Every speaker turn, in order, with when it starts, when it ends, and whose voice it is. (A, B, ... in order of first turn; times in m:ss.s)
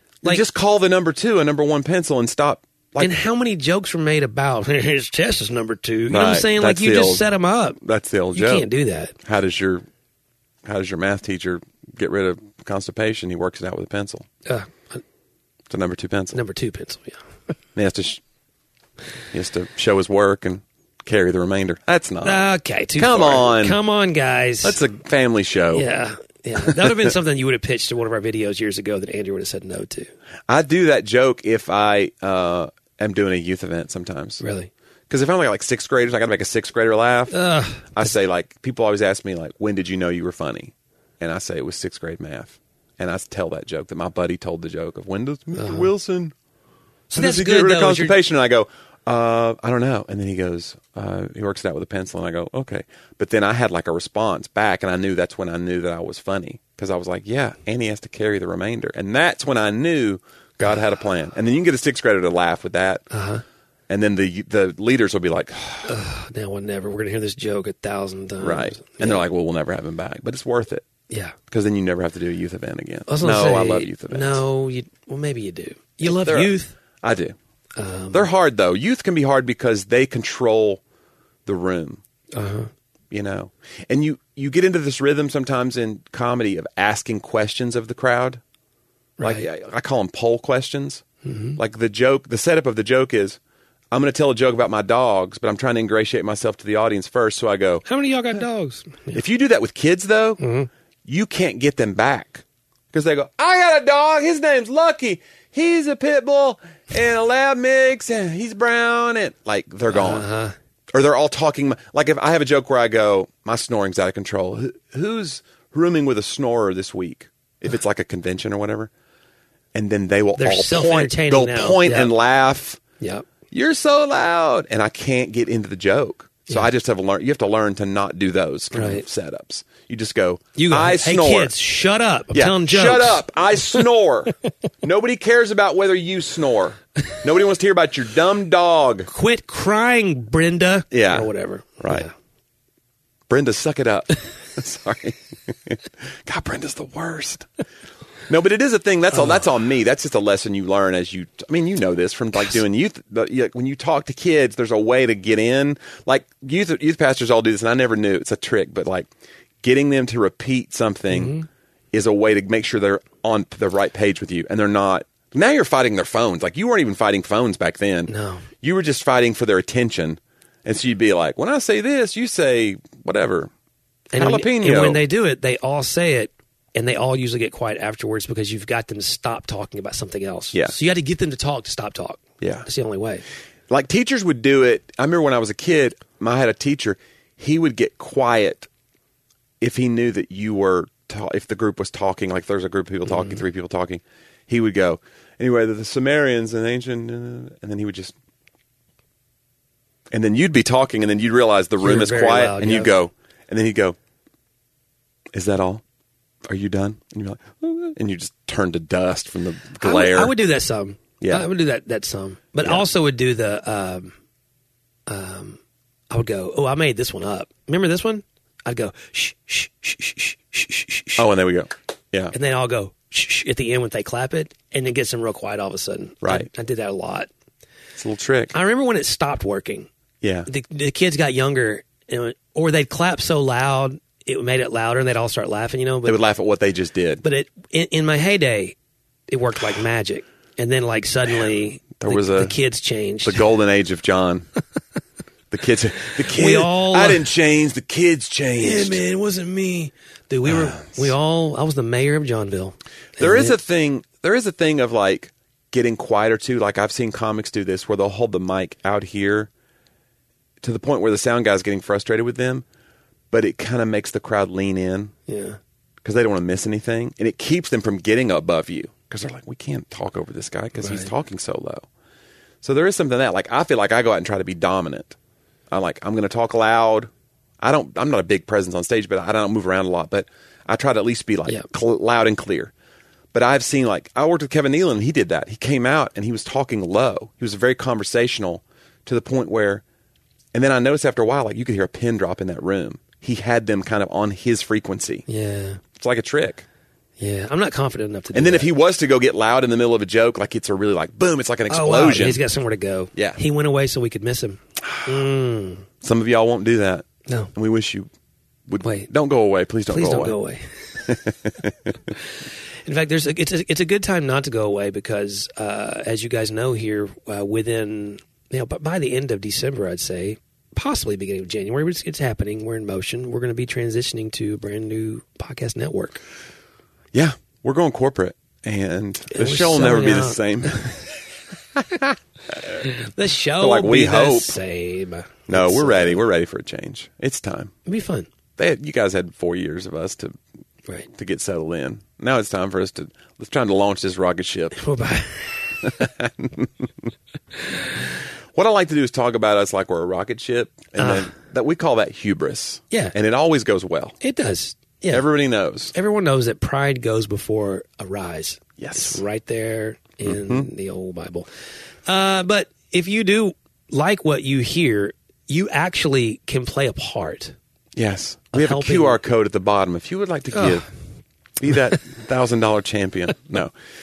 0:00.2-0:03.1 A
0:03.0-0:07.8 B
0:06.1-0:07.2 A
0:07.8-0:08.7 A
0:08.3-0:09.1 B
0:09.2-0:09.8 A
0:10.6-0:14.3 A
0:14.4-0:15.0 B
0:15.7-0:16.4 A
0:16.3-0:17.2 B
0:17.8-0:18.2 A
0:19.3-0:22.5 A
0:22.2-0:24.8 B
0:23.0-0:23.8 A
0:24.6-0:25.9 A
0:25.7-0:30.1 B
0:26.7-0:27.1 A
0:30.5-0:34.4 A
0:34.4-0:34.7 B
0:35.1-0:37.4 A
0:37.3-0:38.1 B
0:37.9-0:46.3 A
0:45.6-0:45.9 B
0:47.1-0:48.2 B
0:47.1-1:03.0 A
1:03.1-1:03.4 B
1:03.9-1:05.9 A
1:05.8-1:09.2 B
1:08.4-1:10.8 A
1:11.1-1:11.3 B
1:11.5-1:14.4 A
1:13.1-1:16.7 B
1:16.0-1:17.3 A
1:17.8-1:18.3 B
1:18.1-1:20.8 A
1:21.4-1:22.0 A
1:22.3-1:22.7 B
1:23.1-1:28.4 A
1:29.2-1:29.5 B
1:29.2-1:31.0 A
1:31.2-1:31.6 B
1:31.6-1:33.4 A
1:33.9-1:37.8 A
1:37.8-1:39.2 B
1:39.1-1:40.4 A
1:40.4-1:40.7 B
1:41.0-1:50.2 A
1:49.9-1:50.5 B
1:50.9-1:58.9 A
1:59.7-2:02.8 A
2:00.4-2:02.1 B
2:03.0-2:03.2 B
2:03.5-2:11.5 A
2:08.7-2:09.0 B
2:10.6-2:13.8 B
2:12.3-2:19.1 A
2:19.1-2:22.1 B
2:20.9-2:22.1 A
2:23.3-2:27.5 A
2:28.3-2:39.1 A
2:29.1-2:29.4 B
2:39.6-2:41.3 A
2:41.1-2:41.4 B
2:41.9-2:48.1 A
2:48.1-2:48.4 B
2:48.6-2:53.5 A
2:54.1-3:03.2 B
2:54.2-2:55.0 A
3:02.4-3:02.6 A
3:03.7-3:08.7 A
3:09.6-3:18.1 A
3:13.0-3:13.4 B
3:20.1-3:24.0 A
3:21.8-3:22.9 B
3:25.3-3:25.8 A
3:26.5-3:30.3 A
3:29.8-3:34.1 B
3:31.2-3:31.5 A
3:35.1-3:35.6 B
3:36.1-3:41.2 B
3:41.2-3:42.3 A
3:42.3-3:47.3 B
3:46.2-3:46.5 A
3:48.0-3:48.5 A
3:48.5-3:49.9 B
3:50.2-3:50.5 A
3:50.5-3:56.2 B
3:56.0-3:57.2 A
3:57.2-3:58.8 B
3:59.3-4:03.5 B
4:02.0-4:02.6 A
4:03.2-4:04.5 A
4:05.5-4:09.0 A
4:06.3-4:07.3 B
4:08.6-4:13.6 B
4:10.5-4:11.1 A
4:13.2-4:19.5 A
4:20.6-4:22.6 A
4:23.3-4:25.1 A
4:25.3-4:25.6 B
4:26.0-4:31.8 A
4:30.8-4:31.1 B
4:32.6-4:35.2 A
4:35.7-4:37.1 A
4:37.6-4:42.7 A
4:43.3-4:49.8 A
4:50.5-4:55.2 A
4:55.3-4:55.8 B
4:56.0-4:56.6 A
4:57.2-4:58.7 B
4:58.3-5:02.4 A
5:01.7-5:05.8 B
5:03.1-5:03.4 A
5:04.8-5:05.1 A
5:06.0-5:08.1 A
5:07.3-5:07.5 B
5:08.7-5:10.4 A
5:08.8-5:09.1 B
5:09.9-5:10.6 B
5:11.1-5:11.9 A
5:12.8-5:26.2 B
5:27.1-5:31.0 A
5:29.3-5:31.0 B
5:31.8-5:32.8 A
5:32.8-5:36.2 B
5:33.6-5:34.6 A
5:35.5-5:37.7 A
5:37.8-5:38.3 B
5:38.6-5:40.3 A
5:41.1-5:44.8 A
5:44.8-5:45.9 B
5:45.8-5:47.0 A
5:48.5-5:54.2 A
5:51.0-5:51.3 B
5:54.2-5:55.2 B
5:55.1-5:55.9 A
5:55.9-6:01.5 B
5:58.8-5:59.2 A
6:00.2-6:00.7 A
6:02.1-6:07.5 B
6:08.0-6:10.8 A
6:08.5-6:09.2 B
6:10.5-6:10.8 B
6:11.6-6:13.7 A